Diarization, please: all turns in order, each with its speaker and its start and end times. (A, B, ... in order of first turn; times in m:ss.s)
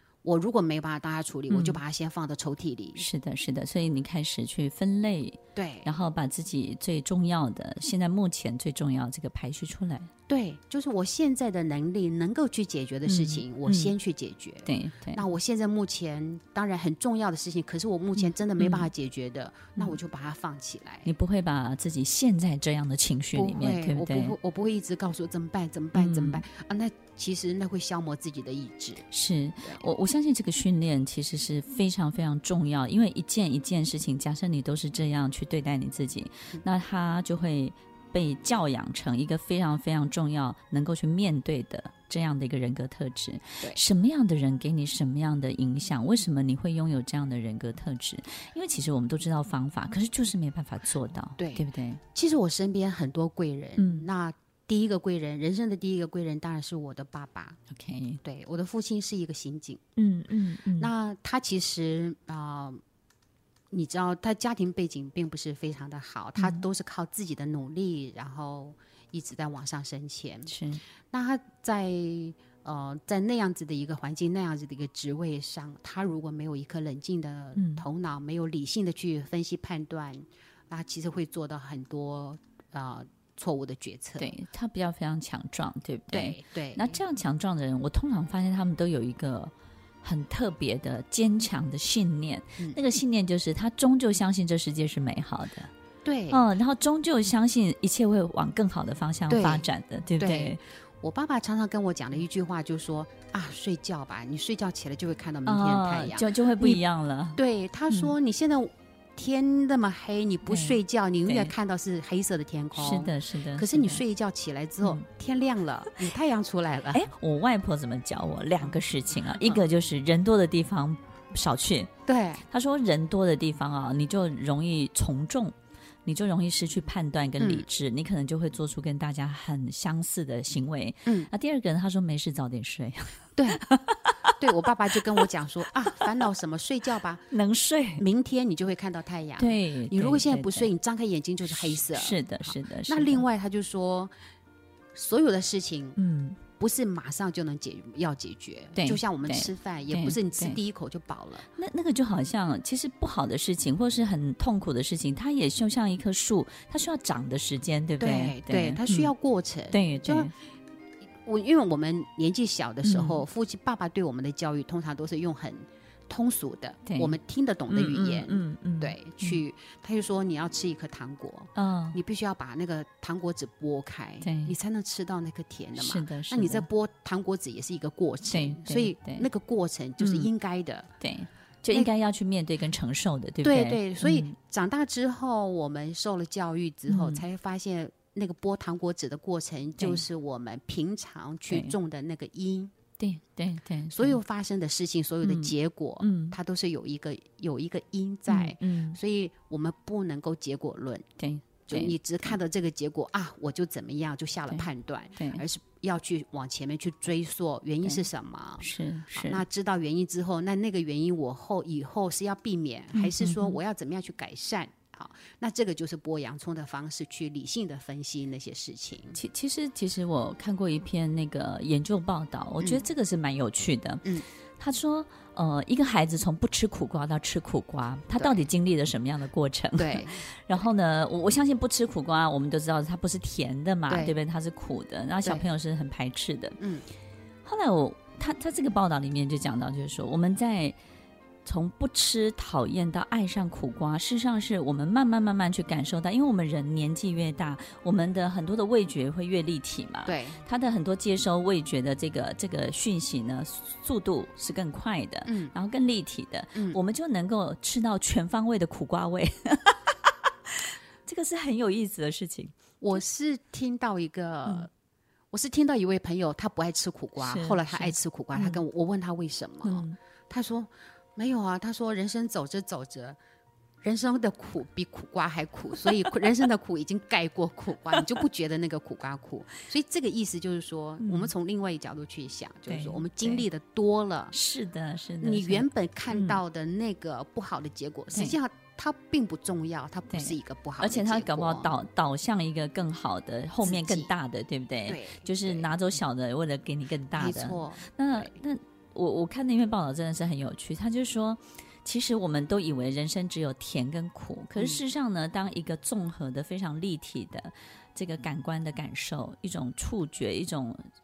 0:00.2-0:03.1 A
0:01.5-0:01.8 B
0:03.0-0:10.1 B
0:05.5-0:05.9 A
0:10.3-0:21.1 A
0:13.0-0:13.9 B
0:14.6-0:15.2 B
0:18.6-0:18.9 B
0:21.0-0:24.3 B
0:23.3-0:29.0 A
0:25.9-0:26.4 B
0:29.1-0:52.0 B
0:29.6-0:29.9 A
0:51.4-0:57.6 A
0:53.8-0:54.1 B
0:57.7-0:58.2 B
0:58.2-0:59.8 A
1:00.0-1:00.9 B
1:00.8-1:02.8 A
1:03.7-1:10.5 A
1:06.4-1:06.6 B
1:10.5-1:10.8 B
1:11.1-1:24.3 A
1:17.6-1:17.8 B
1:24.2-1:29.5 B
1:26.1-1:27.0 A
1:30.0-1:35.7 B
1:36.0-1:36.4 A
1:36.3-1:40.6 B
1:39.3-1:39.7 A
1:40.2-1:46.8 A
1:45.4-1:48.1 B
1:47.4-1:57.0 A
1:50.4-1:51.5 B
1:52.7-1:54.0 B
1:56.9-2:01.9 B
2:02.0-2:02.4 A
2:02.5-2:14.2 B
2:07.4-2:07.7 A
2:11.0-2:11.3 A
2:13.4-2:13.6 A
2:14.4-2:17.2 A
2:17.3-2:18.0 B
2:18.0-2:24.1 A
2:19.4-2:20.7 B
2:21.5-2:23.2 B
2:24.9-2:26.0 A
2:26.0-2:26.4 B
2:26.6-2:31.4 A
2:28.8-2:30.6 B
2:31.5-2:39.1 B
2:38.0-2:40.3 A
2:39.7-2:40.3 B
2:41.2-3:00.9 A
2:42.8-2:43.2 B
2:46.8-2:47.2 B
2:47.7-2:49.4 B
2:51.6-2:52.0 B
2:54.2-2:54.6 B
2:55.8-2:56.6 B
2:58.3-2:59.3 B
3:00.0-3:00.3 B
3:01.0-3:04.3 B
3:03.4-3:12.7 A
3:06.9-3:07.2 B
3:09.8-3:10.0 B
3:11.5-3:11.7 B
3:13.0-3:14.2 B
3:13.9-3:21.0 A
3:15.2-3:16.4 B
3:18.3-3:19.0 B
3:21.2-3:22.3 B
3:21.7-3:39.2 A
3:24.5-3:25.4 B
3:28.6-3:29.4 B
3:32.9-3:33.6 B
3:39.1-3:56.6 B
3:42.6-3:42.9 A
3:48.2-3:48.5 A
3:49.8-3:50.2 A
3:53.9-3:54.1 A
3:56.6-3:56.9 A
3:57.4-4:00.8 B
4:01.4-4:19.9 B
4:10.0-4:10.4 A
4:15.2-4:15.5 A
4:16.5-4:16.8 A
4:20.5-4:23.0 B
4:22.8-4:24.7 A
4:25.3-4:33.2 A
4:27.2-4:28.6 B
4:29.6-4:30.0 B
4:33.8-4:44.3 A
4:41.0-4:41.3 B
4:42.7-4:43.4 B
4:44.3-4:46.4 B
4:45.2-4:51.7 A
4:50.1-5:10.8 B
4:53.6-4:54.1 A
4:54.8-4:55.7 A
4:57.1-4:58.3 A
5:04.6-5:04.8 A